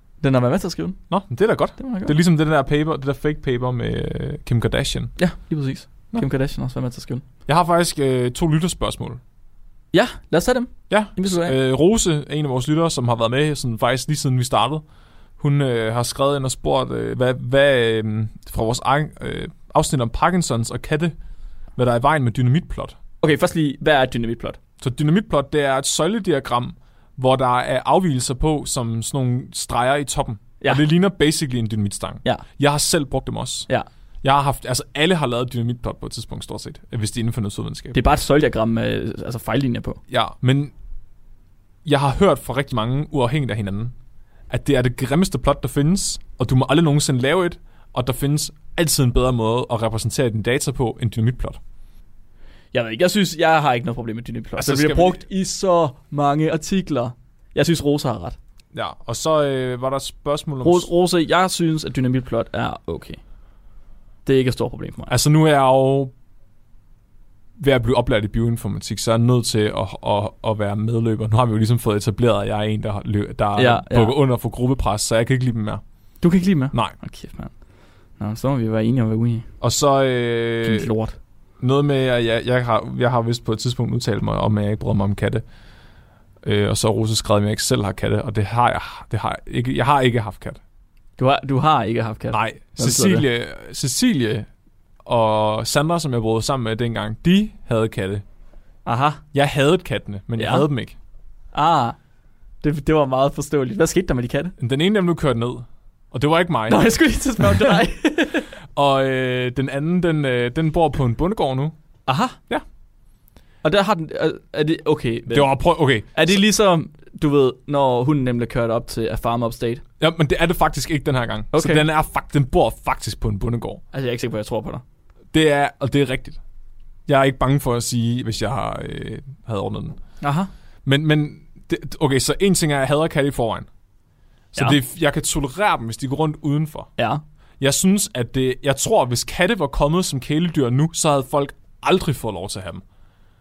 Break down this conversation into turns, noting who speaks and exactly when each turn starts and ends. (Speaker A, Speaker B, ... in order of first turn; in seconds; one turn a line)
Speaker A: 0.2-1.0
Speaker B: 1.1-5.2
Speaker A: 1.8-2.1
Speaker A: 5.2-7.2
Speaker B: 7.5-9.2
Speaker A: 9.9-11.6
Speaker B: 10.9-14.8
Speaker B: 15.4-21.1
Speaker B: 21.8-23.0
Speaker A: 23.2-24.6
Speaker B: 24.8-33.7
Speaker B: 34.2-38.0
Speaker A: 37.9-40.0
Speaker B: 40.1-40.7
Speaker B: 41.9-43.9
Speaker B: 44.5-51.6
Speaker A: 52.7-58.4
Speaker B: 54.6-55.2
Speaker B: 58.7-60.9
Speaker A: 60.6-63.2
Speaker A: 64.3-65.1
Speaker B: 65.1-66.1
Speaker B: 67.6-75.8
Speaker A: 73.6-74.1
Speaker A: 76.2-77.5
Speaker A: 78.2-79.5
Speaker B: 79.6-80.9
Speaker A: 80.6-81.2
Speaker B: 81.6-85.4
Speaker B: 86.4-90.6
Speaker A: 91.2-93.2
Speaker B: 92.3-94.5
Speaker B: 95.1-98.2
Speaker A: 98.9-99.2
Speaker B: 99.3-101.0
Speaker A: 100.4-100.7
Speaker A: 101.5-102.0
Speaker A: 102.6-104.5
Speaker B: 104.6-106.8
Speaker A: 106.7-108.5
Speaker B: 107.4-107.8
Speaker B: 108.7-111.8
Speaker A: 112.1-112.4
Speaker A: 113.6-115.5
Speaker B: 115.3-116.4
Speaker A: 116.1-119.8
Speaker B: 120.0-123.8
Speaker A: 121.5-121.8
Speaker A: 123.9-124.8
Speaker B: 125.3-126.4
Speaker B: 127.1-130.0
Speaker A: 130.2-130.5
Speaker B: 130.9-133.7
Speaker B: 134.5-136.9
Speaker B: 137.6-142.8